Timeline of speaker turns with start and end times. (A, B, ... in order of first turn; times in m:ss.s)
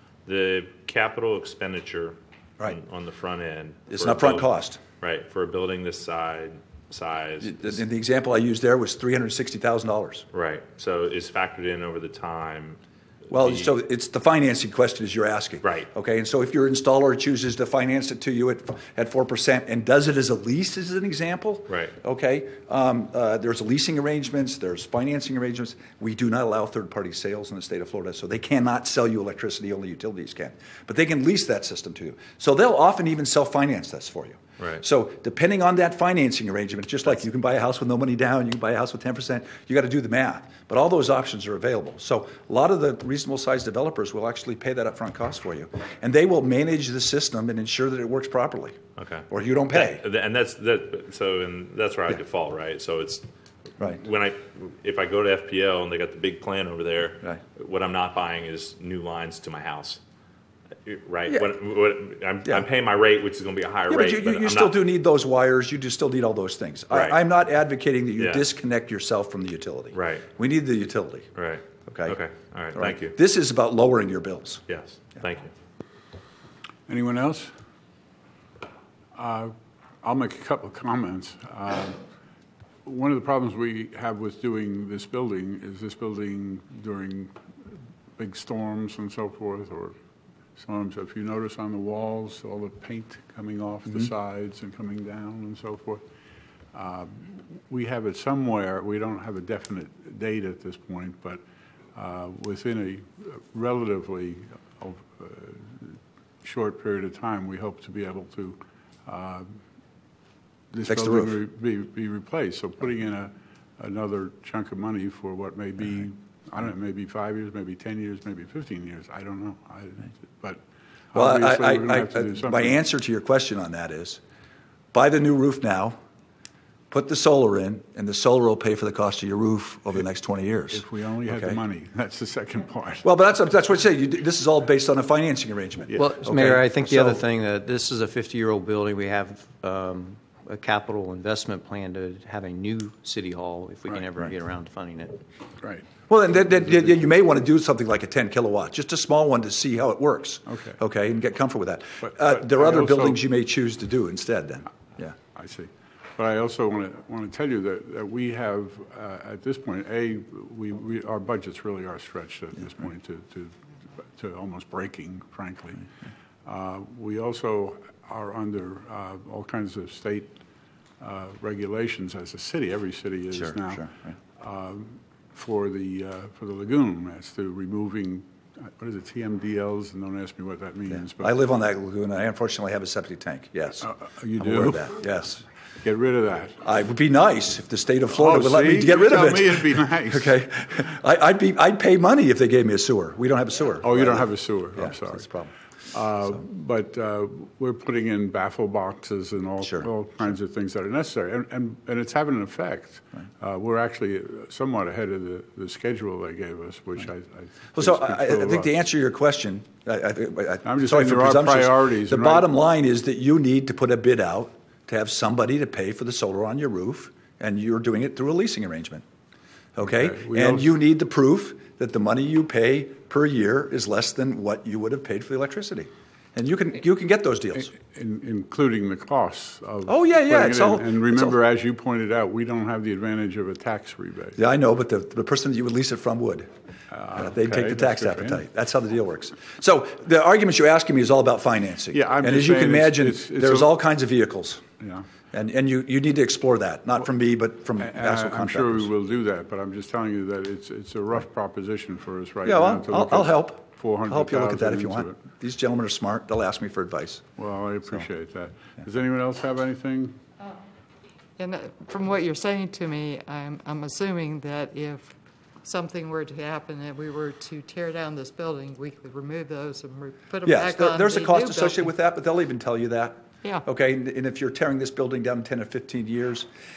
0:00.2-0:07.8 A
0:03.9-0:04.8 B
0:07.4-0:10.2 B
0:10.3-0:12.8 A
0:13.3-0:48.8 B
0:13.4-0:13.7 A
0:15.6-0:15.9 A
0:21.7-0:21.9 A
0:49.0-0:53.2 A
0:49.3-0:50.0 B
0:53.8-1:00.0 A
1:00.8-1:04.8 A
1:03.9-1:11.3 B
1:06.9-1:07.2 A
1:08.2-1:08.4 A
1:09.9-1:10.3 A
1:11.3-1:13.2 A
1:11.9-1:12.2 B
1:12.7-1:14.6 B
1:14.7-1:15.5 A
1:16.9-1:17.5 C
1:19.1-1:22.0 C
1:22.8-1:27.4 C
1:28.2-1:29.9 C
1:30.6-1:36.0 C
1:36.7-1:41.4 C
1:41.9-1:49.6 C
1:50.7-2:00.6 C
1:50.9-1:51.4 B
2:01.1-2:02.8 C
2:01.1-2:04.2 B
2:04.9-2:06.0 B
2:06.9-2:11.6 B
2:10.7-2:13.0 C
2:13.0-2:17.2 B
2:15.9-2:25.2 D
2:26.1-2:35.2 B
2:30.5-2:30.8 C
2:32.0-2:33.2 C
2:35.3-2:45.8 C
2:46.4-2:50.4 C
2:51.0-3:01.3 C
2:53.3-2:54.1 B
3:00.9-3:05.4 B
3:03.8-3:05.2 C
3:05.8-3:06.6 C
3:06.6-3:15.5 B
3:08.1-3:10.4 C
3:13.8-3:15.3 C
3:15.9-3:28.7 C
3:19.6-3:19.9 B
3:27.7-3:39.0 B
3:30.6-3:32.5 C
3:39.7-3:47.7 B
3:39.8-3:40.7 C
3:47.5-3:54.4 C
3:49.8-3:51.4 B
3:54.4-3:56.5 B
3:56.9-3:58.4 C
3:57.2-4:04.6 B
4:01.9-4:03.7 C
4:04.8-4:05.1 C
4:05.3-4:08.9 B
4:07.8-4:15.2 C
4:12.4-4:17.2 B
4:17.4-4:20.2 C
4:21.4-4:31.9 E
4:30.4-4:36.5 B